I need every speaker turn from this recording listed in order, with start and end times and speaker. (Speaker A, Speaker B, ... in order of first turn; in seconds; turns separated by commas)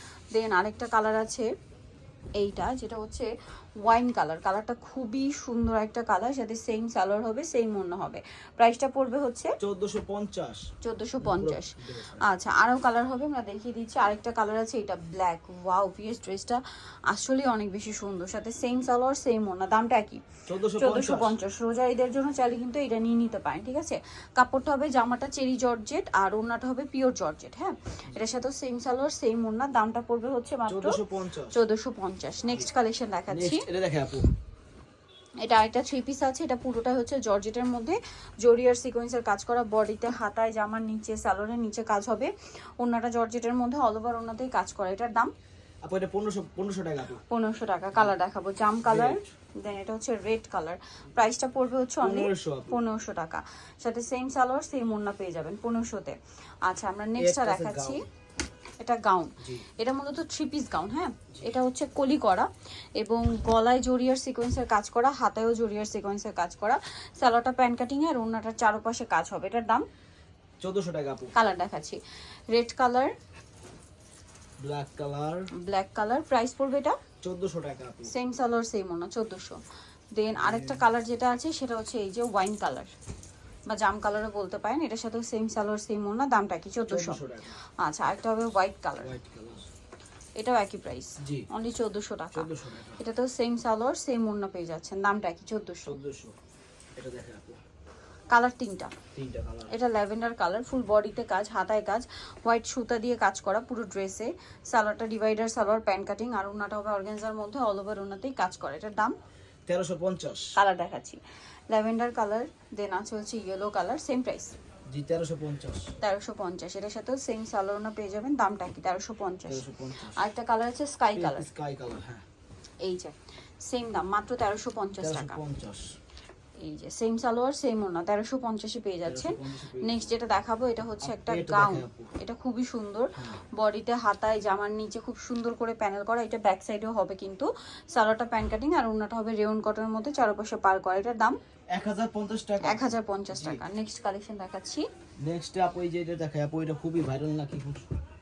Speaker A: 0.3-1.5, Speaker A: 2.4-3.3, Speaker A: 3.8-9.6, Speaker B: 9.6-10.7, Speaker A: 10.8-20.2, Speaker B: 11.2-12.2, Speaker B: 20.5-21.4, Speaker A: 20.8-31.0, Speaker B: 30.7-31.6, Speaker A: 31.5-33.7, Speaker B: 33.3-34.3, Speaker A: 35.4-45.3, Speaker B: 45.8-47.2, Speaker A: 47.3-58.0, Speaker B: 48.8-49.3, Speaker B: 52.0-52.8, Speaker B: 57.2-58.0, Speaker A: 58.8-69.8, Speaker B: 59.4-59.7, Speaker B: 70.6-71.3, Speaker A: 71.3-72.0, Speaker A: 72.5-73.1, Speaker B: 74.6-75.5, Speaker A: 75.5-77.0, Speaker B: 77.2-78.1, Speaker A: 78.1-79.6, Speaker A: 80.2-82.9, Speaker B: 80.4-80.8, Speaker A: 83.7-87.2, Speaker B: 86.9-87.6, Speaker A: 87.8-89.2, Speaker B: 89.0-89.7, Speaker A: 90.4-96.0, Speaker B: 91.2-91.5, Speaker B: 92.3-93.0, Speaker B: 95.8-96.4, Speaker B: 97.0-97.6, Speaker A: 98.3-99.0, Speaker B: 99.2-99.8, Speaker A: 99.7-109.2, Speaker B: 109.7-110.6, Speaker A: 110.5-114.5, Speaker B: 114.9-115.9, Speaker A: 116.0-121.5, Speaker B: 119.5-120.2, Speaker B: 121.2-122.3, Speaker A: 122.8-125.4, Speaker B: 125.0-126.0, Speaker A: 126.6-141.4, Speaker B: 129.1-130.1, Speaker B: 131.0-132.1, Speaker B: 133.2-133.4, Speaker B: 141.8-143.7, Speaker A: 142.6-144.9, Speaker B: 145.2-147.9